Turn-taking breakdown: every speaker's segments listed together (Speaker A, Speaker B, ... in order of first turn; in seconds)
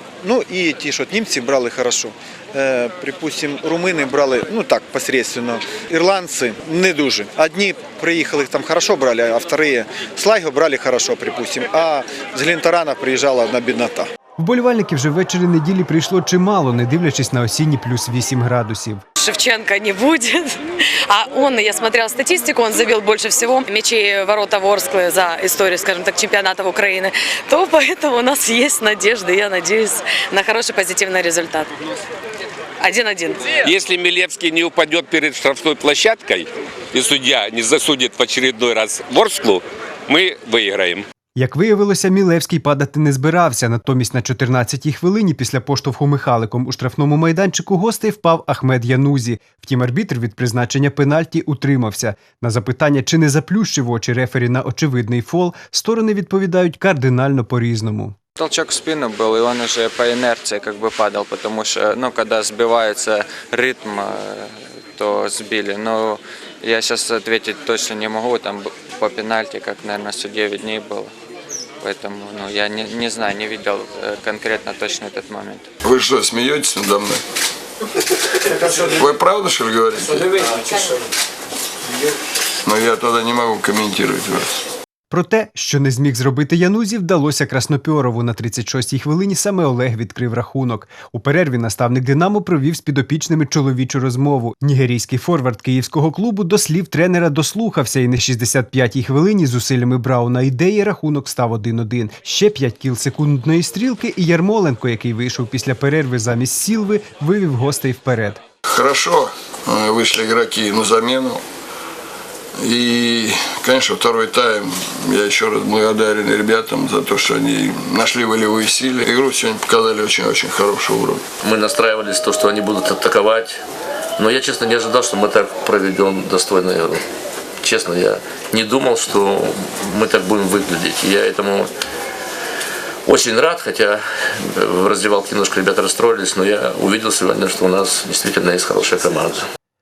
Speaker A: 0.2-14.1
Speaker B: 14.4-19.0, 41.4-58.2, 85.1-108.4
Speaker C: 19.2-31.7, 32.8-33.6
Speaker D: 33.6-41.1
Speaker E: 58.4-71.1, 71.8-75.7
Speaker F: 75.8-77.2, 78.7-80.5, 82.7-84.6, 108.7-111.4, 112.6-121.3
Speaker G: 121.4-123.6, 124.2-127.0, 127.6-131.7, 133.1-139.4